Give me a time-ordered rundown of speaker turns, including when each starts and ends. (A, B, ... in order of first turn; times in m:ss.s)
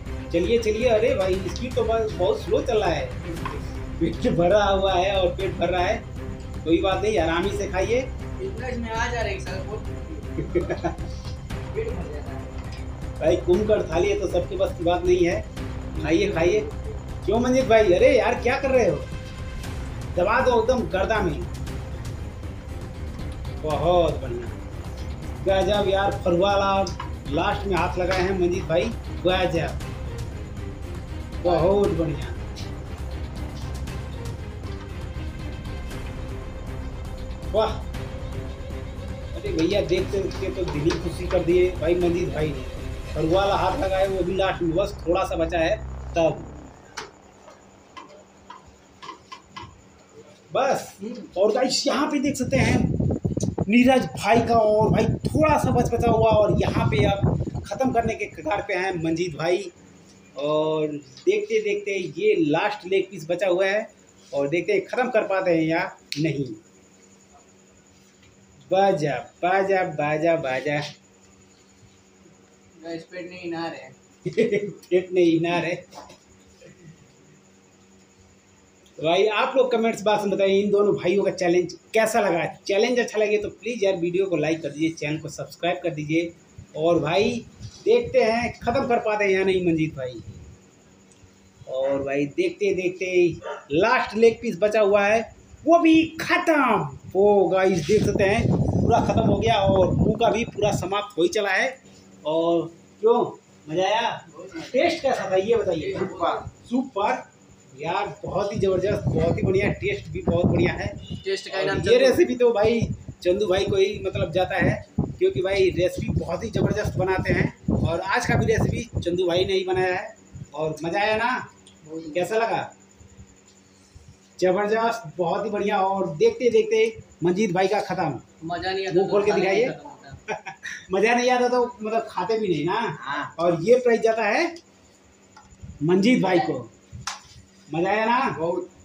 0:00.3-0:03.3 A
0:04.0-0:06.0 A
0:06.6-0:08.1 A
0:08.4-0:10.5 B
0:10.4-0:11.1 A
0:11.7-0:12.5 B
0:13.2-0:15.4 A
0:16.0-0:16.8 B
0:16.0-0:16.7 A
0:17.2-0:19.1 A
0:20.1-0:21.5 A
0:23.6-0:24.6 A
0:25.4-0:29.8 A
0:31.4-0:32.4 A
0:31.4-0:31.8 B
0:37.5-0:37.8 A
0:39.3-0:46.5 A
0:50.5-0:53.0 A
0:53.6-0:59.7 A
1:00.3-1:06.6 A
1:08.7-1:10.9 A
1:12.8-1:13.9 B
1:14.2-1:15.8 A
1:19.0-1:30.3 A
1:31.7-2:01.4 A
1:44.3-1:44.9 B
1:45.8-1:46.5 B
1:51.2-1:52.2 B
2:01.8-2:02.4 B
2:02.1-2:02.7 A
2:04.4-2:08.2 A
2:08.4-2:10.2 B
2:08.9-2:09.7 A
2:10.3-2:14.5 A
2:13.0-2:13.3 B
2:15.8-2:16.7 A
2:17.7-2:18.4 A
2:18.4-2:18.7 B